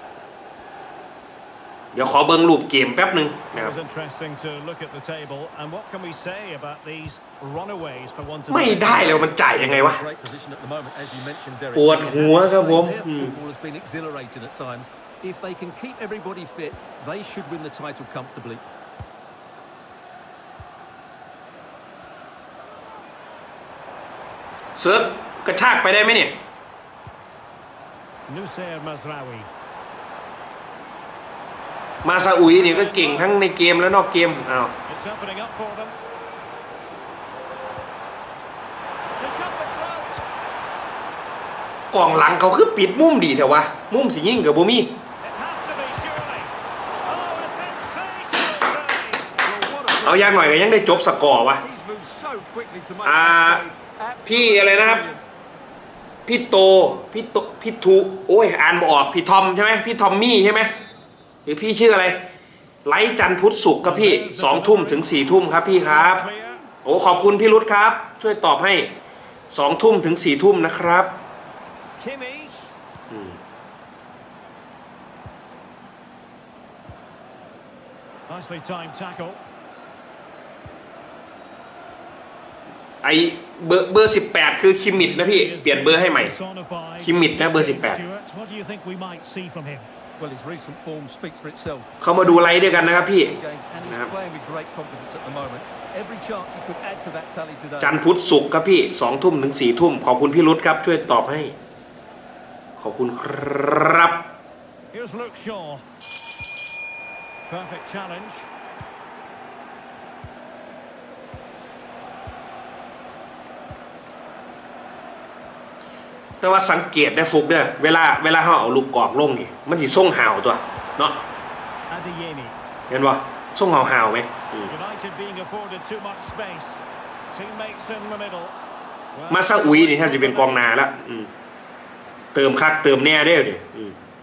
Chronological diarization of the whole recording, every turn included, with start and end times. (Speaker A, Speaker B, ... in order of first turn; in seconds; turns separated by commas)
Speaker A: 1.9-3.8, Speaker B: 3.5-9.3, Speaker A: 8.5-10.0, Speaker C: 9.5-18.6, Speaker A: 11.8-13.3, Speaker A: 24.8-26.4, Speaker B: 28.3-29.5, Speaker A: 32.0-34.7, Speaker B: 32.4-33.4, Speaker B: 34.9-36.0, Speaker B: 39.2-40.2, Speaker A: 41.9-44.9, Speaker B: 45.2-49.3, Speaker C: 49.4-55.2, Speaker A: 50.0-51.6, Speaker A: 53.0-53.6, Speaker A: 54.3-55.0, Speaker A: 56.3-60.7, Speaker A: 61.5-62.2, Speaker A: 62.9-66.2, Speaker B: 63.8-66.7, Speaker A: 66.8-68.9, Speaker A: 69.5-71.1, Speaker B: 72.0-72.7, Speaker A: 73.1-73.4, Speaker B: 78.3-79.4, Speaker A: 83.0-86.3, Speaker B: 84.9-89.9, Speaker A: 87.0-88.0, Speaker C: 90.2-98.1, Speaker A: 92.0-94.1, Speaker A: 97.8-101.5, Speaker A: 102.8-104.3, Speaker B: 104.9-105.8, Speaker B: 107.5-108.5, Speaker A: 116.4-121.2, Speaker B: 121.9-122.6, Speaker A: 122.9-124.7, Speaker B: 124.7-126.8, Speaker B: 127.3-128.6, Speaker B: 129.1-130.7, Speaker A: 129.3-131.3, Speaker A: 132.3-134.0